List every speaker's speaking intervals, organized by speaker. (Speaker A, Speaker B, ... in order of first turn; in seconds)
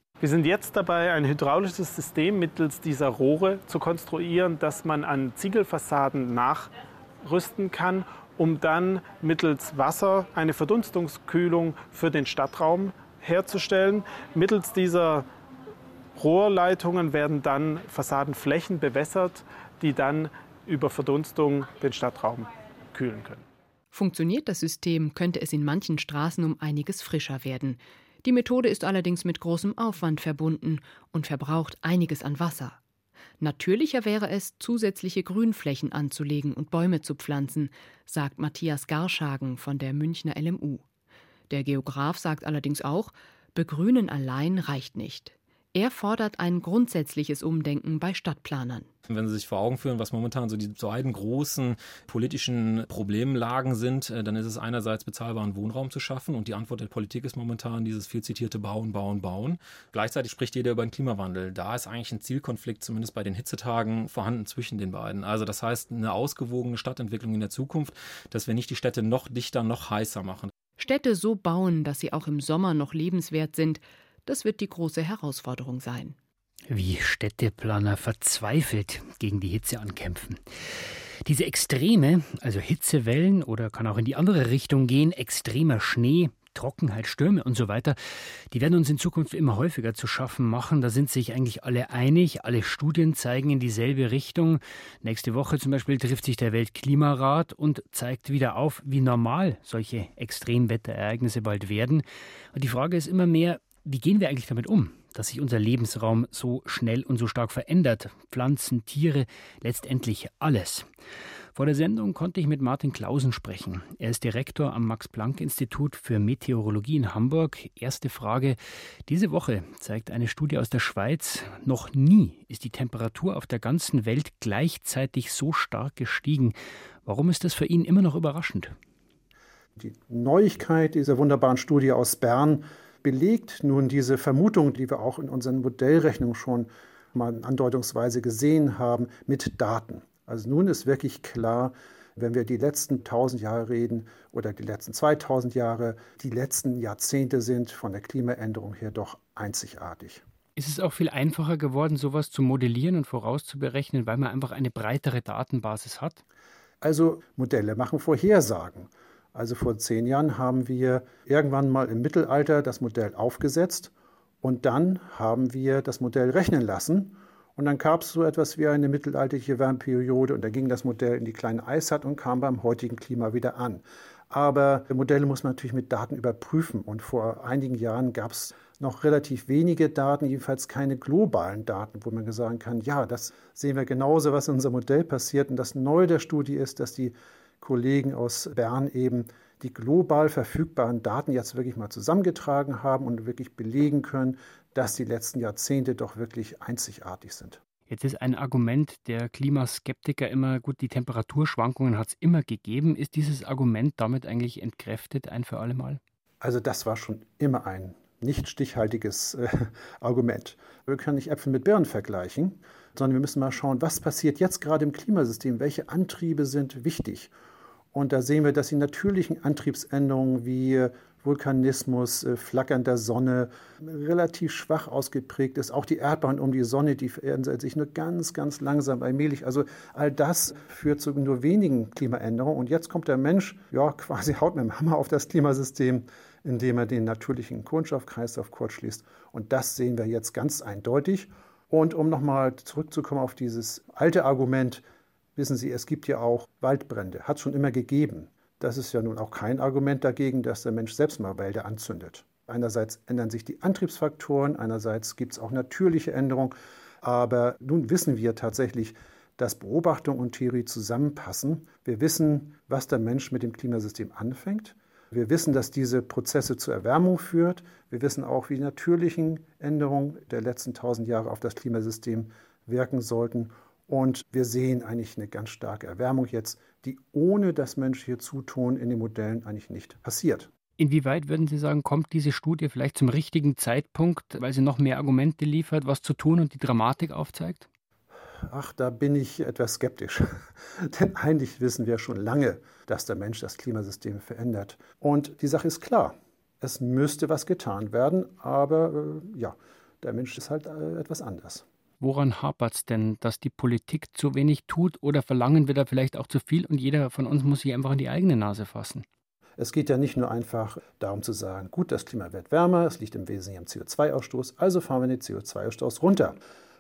Speaker A: 0.2-6.7, 7.2-15.3, 16.2-23.5
Speaker B: 23.9-32.8, 33.4-40.8, 41.5-48.9, 70.8-76.2
Speaker C: 49.1-70.5
Speaker D: 76.7-110.9, 111.5-128.7, 150.6-156.2, 197.9-206.0, 280.8-287.7, 302.0-309.1
Speaker E: 129.8-150.2, 156.8-197.6, 206.4-217.3, 217.9-244.8, 245.4-280.5, 288.5-301.6, 309.6-316.4